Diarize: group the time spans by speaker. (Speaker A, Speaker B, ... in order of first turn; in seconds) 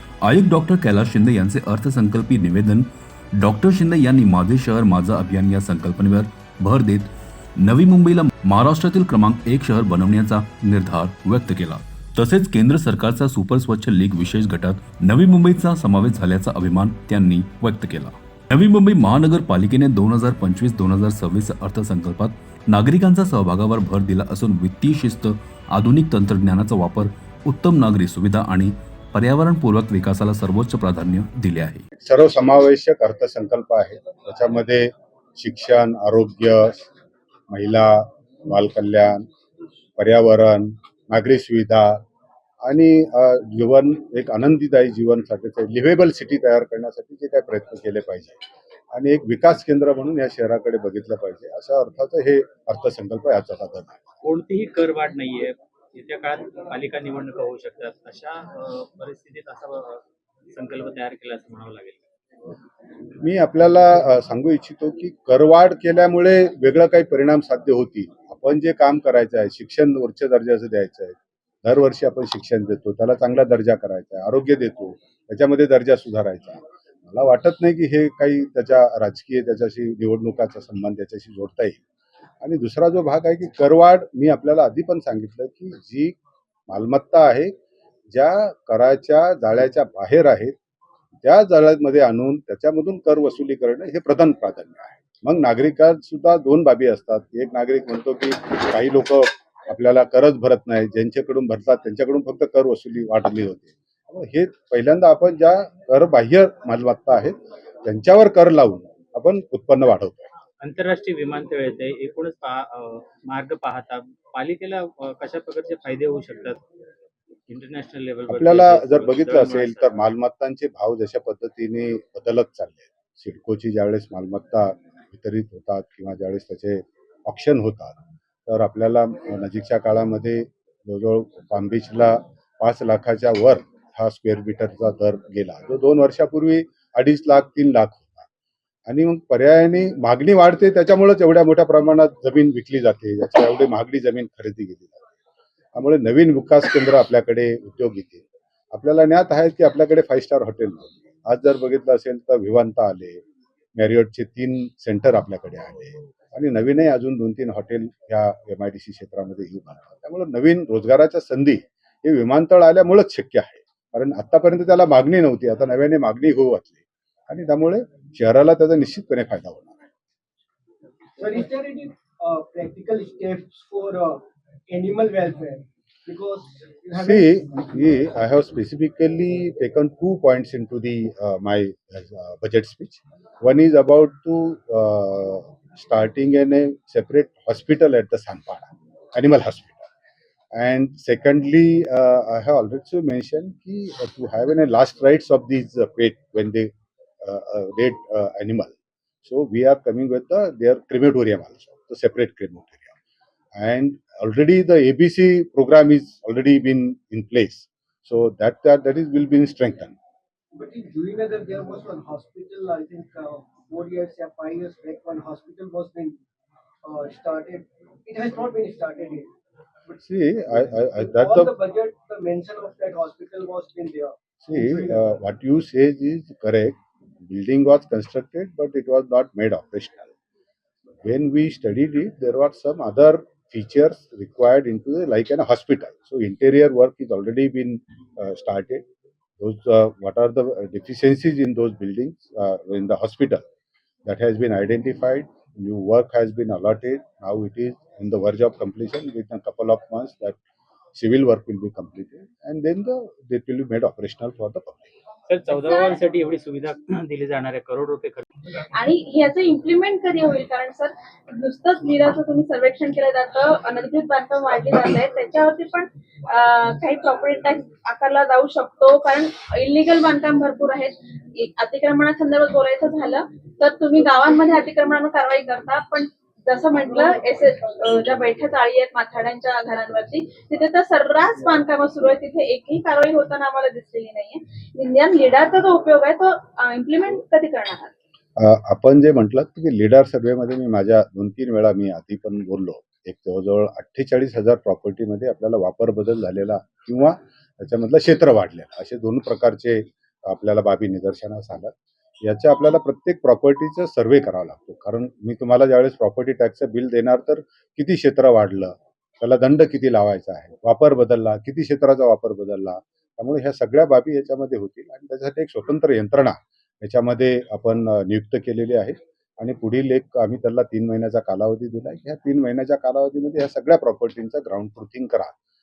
Speaker A: 0.2-31.8
Speaker B: 31.9-36.9, 37.5-39.3, 40.0-42.0, 42.6-54.0, 63.2-81.8, 82.4-86.2, 86.7-87.5, 88.1-90.5, 91.2-110.3, 118.3-138.2, 138.9-145.0, 145.7-153.2, 153.7-169.8, 177.0-189.8, 190.5-196.7, 197.2-202.9, 203.6-209.9, 219.9-221.5, 224.4-230.1, 231.0-238.8, 239.4-243.4, 244.0-250.4, 250.9-254.9, 288.4-325.3
Speaker C: 54.2-62.0, 110.6-116.6, 117.5-120.0, 255.3-258.3
Speaker D: 171.2-177.4, 210.5-216.2, 216.8-219.3, 220.9-225.0
Speaker E: 255.6-256.0, 258.7-287.9